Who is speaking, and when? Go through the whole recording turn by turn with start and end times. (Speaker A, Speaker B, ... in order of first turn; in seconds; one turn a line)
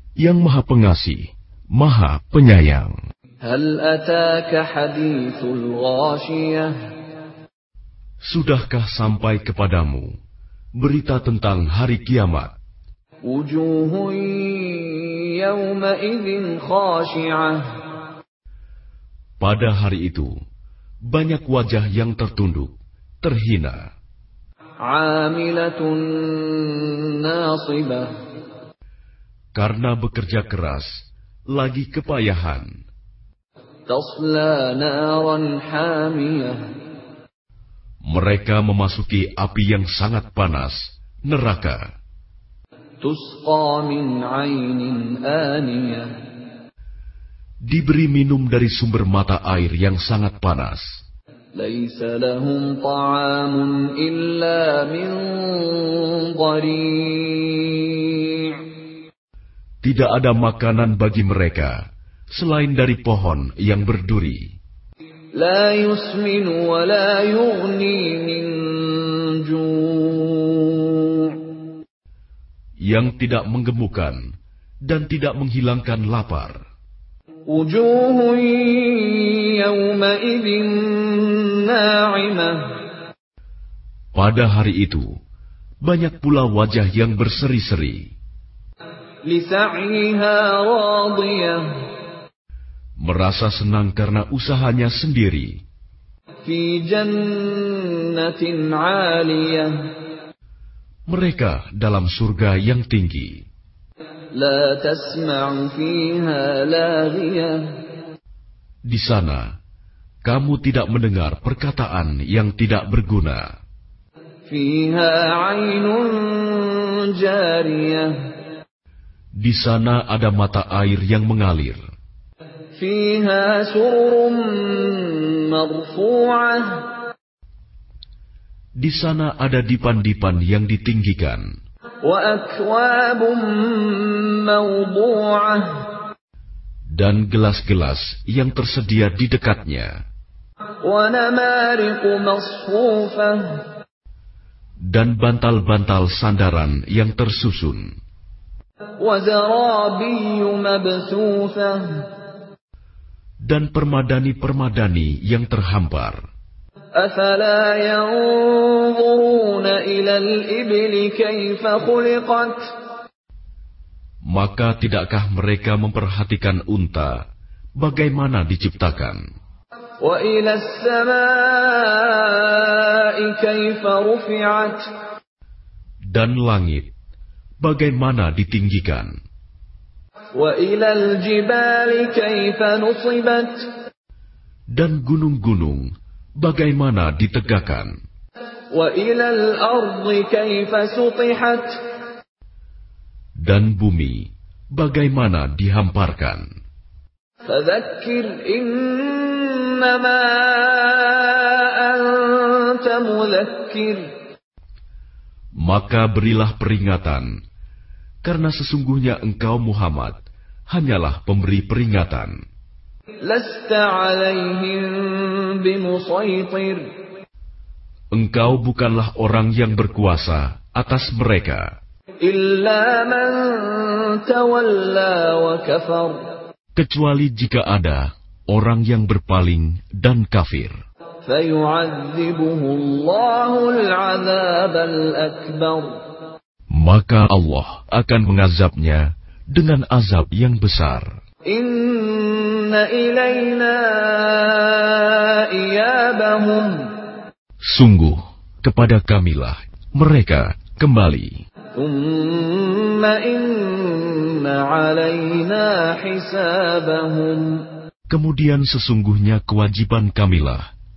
Speaker A: 0.2-1.2
Speaker A: 1.8-2.9
Speaker B: 3.4-6.7
Speaker A: 8.3-10.1
Speaker A: 10.8-12.5
Speaker B: 13.2-17.6
Speaker A: 19.4-20.3
Speaker A: 21.1-23.8
Speaker B: 24.9-28.1
Speaker A: 29.6-30.9
Speaker A: 31.6-32.7
Speaker B: 33.9-36.6
Speaker A: 38.1-41.8
Speaker B: 43.0-46.1
Speaker A: 47.7-50.8
Speaker B: 51.6-58.6
Speaker A: 59.8-61.8
Speaker A: 62.4-64.4
Speaker B: 65.3-71.4
Speaker A: 72.9-74.2
Speaker A: 74.9-76.6
Speaker B: 77.5-82.7
Speaker A: 84.2-85.1
Speaker A: 85.8-88.0
Speaker B: 89.3-91.7
Speaker A: 93.0-95.6
Speaker B: 96.4-99.8
Speaker A: 101.1-103.4
Speaker B: 104.3-107.7
Speaker A: 108.9-109.4
Speaker A: 110.2-113.5
Speaker B: 114.5-118.1
Speaker A: 119.4-121.8
Speaker B: 122.8-126.9
Speaker A: 128.8-131.4
Speaker B: 132.0-135.8
Speaker A: 137.0-139.9
Speaker B: 140.8-143.6
Speaker A: 144.9-147.8
Speaker B: 149.0-152.1
Speaker A: 153.5-156.2
Speaker B: 156.9-162.6
Speaker A: 164.3-167.1
Speaker A: 167.8-169.2
Speaker B: 170.0-174.9
Speaker A: 176.1-176.9
Speaker A: 177.6-179.1
Speaker B: 180.3-183.7
Speaker A: 184.8-185.8
Speaker A: 186.4-187.9
Speaker B: 188.7-191.8
Speaker A: 193.5-196.4
Speaker B: 197.4-204.1
Speaker A: 205.6-207.3
Speaker A: 208.2-210.2
Speaker A: 210.7-212.3
Speaker B: 213.2-216.8
Speaker A: 218.2-221.7
Speaker B: 222.2-226.3
Speaker A: 226.8-230.8
Speaker B: 231.2-236.0
Speaker A: 236.8-241.1
Speaker B: 241.5-246.9
Speaker A: 247.7-251.3
Speaker B: 251.7-257.6
Speaker A: 258.1-260.6